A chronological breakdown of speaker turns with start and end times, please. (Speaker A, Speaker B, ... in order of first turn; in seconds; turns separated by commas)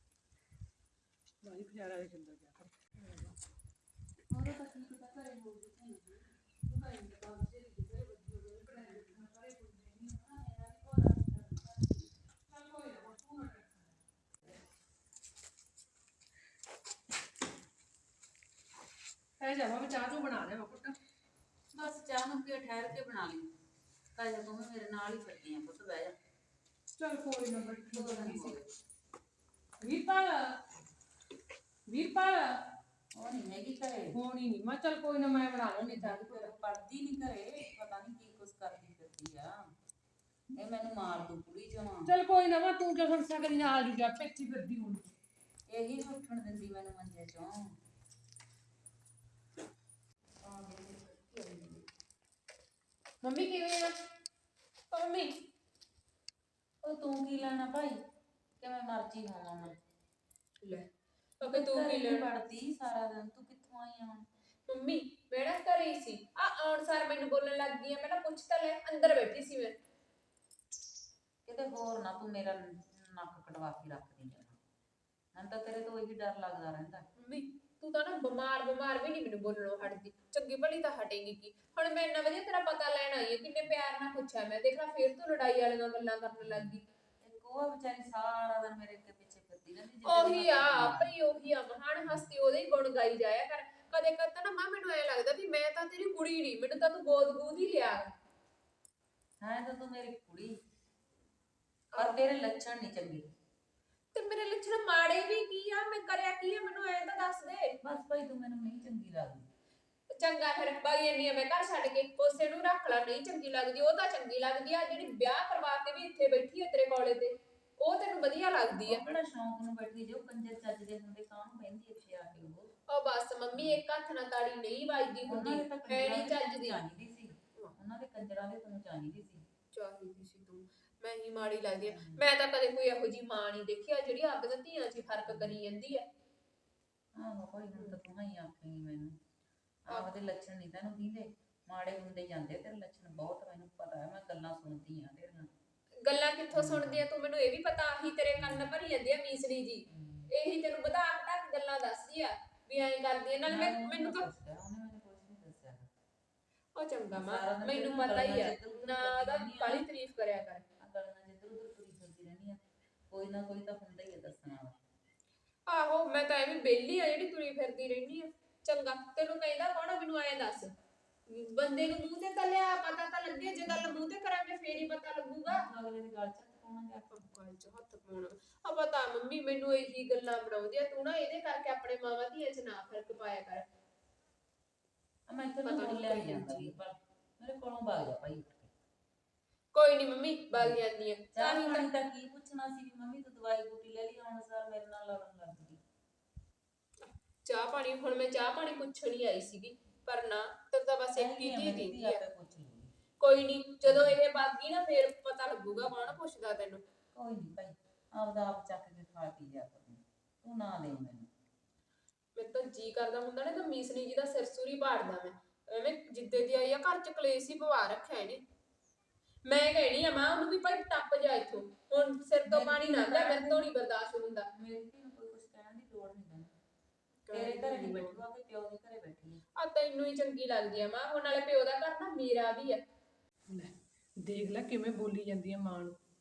Speaker A: 1.4-3.4, Speaker B: 4.3-6.2, Speaker A: 6.6-10.2, Speaker B: 10.2-12.1, Speaker A: 12.5-14.0, Speaker A: 19.4-20.9, Speaker B: 21.7-23.5, Speaker B: 24.1-26.2, Speaker A: 26.9-28.6, Speaker B: 27.9-28.7, Speaker A: 29.8-30.6, Speaker A: 31.9-32.7, Speaker B: 33.1-34.2, Speaker A: 34.1-36.5, Speaker B: 35.8-39.6, Speaker B: 40.5-42.1, Speaker A: 42.0-45.1, Speaker B: 45.7-47.8, Speaker B: 50.4-51.8, Speaker C: 53.2-54.0, Speaker C: 54.9-55.5, Speaker B: 56.8-58.0, Speaker B: 58.6-59.8, Speaker C: 60.6-60.9, Speaker C: 61.4-62.3, Speaker B: 61.4-64.2, Speaker C: 64.7-69.8, Speaker B: 71.4-74.6, Speaker B: 75.3-77.1, Speaker C: 77.2-86.8, Speaker B: 86.4-91.1, Speaker C: 90.0-98.1, Speaker B: 99.4-100.5, Speaker C: 101.9-102.2, Speaker B: 102.0-103.3, Speaker C: 104.1-107.8, Speaker B: 107.8-109.5, Speaker C: 110.1-119.0, Speaker B: 118.8-122.7, Speaker C: 122.9-126.8, Speaker B: 123.5-123.8, Speaker B: 125.2-129.5, Speaker C: 129.7-136.1, Speaker B: 131.9-132.2, Speaker B: 135.3-135.6, Speaker B: 137.1-139.2, Speaker B: 139.9-145.5, Speaker C: 139.9-140.2, Speaker C: 146.0-154.2, Speaker B: 146.5-147.1, Speaker B: 148.3-148.7, Speaker B: 149.9-150.3, Speaker B: 153.4-155.9, Speaker C: 156.8-160.7, Speaker B: 157.1-159.9, Speaker B: 160.8-164.8, Speaker C: 165.7-170.7, Speaker C: 171.3-175.7, Speaker B: 175.5-177.1, Speaker C: 177.1-183.7, Speaker B: 185.3-188.7, Speaker C: 185.7-186.7, Speaker C: 189.7-191.9, Speaker B: 190.5-190.8, Speaker B: 191.3-195.8, Speaker C: 197.0-202.2, Speaker B: 201.2-202.9, Speaker C: 203.2-206.8, Speaker B: 203.8-204.2, Speaker B: 207.1-211.3, Speaker C: 212.4-218.4, Speaker C: 219.4-224.5, Speaker B: 222.5-223.7, Speaker B: 224.5-226.5, Speaker C: 227.3-228.2, Speaker B: 227.3-229.4, Speaker C: 229.6-232.8, Speaker A: 233.5-236.0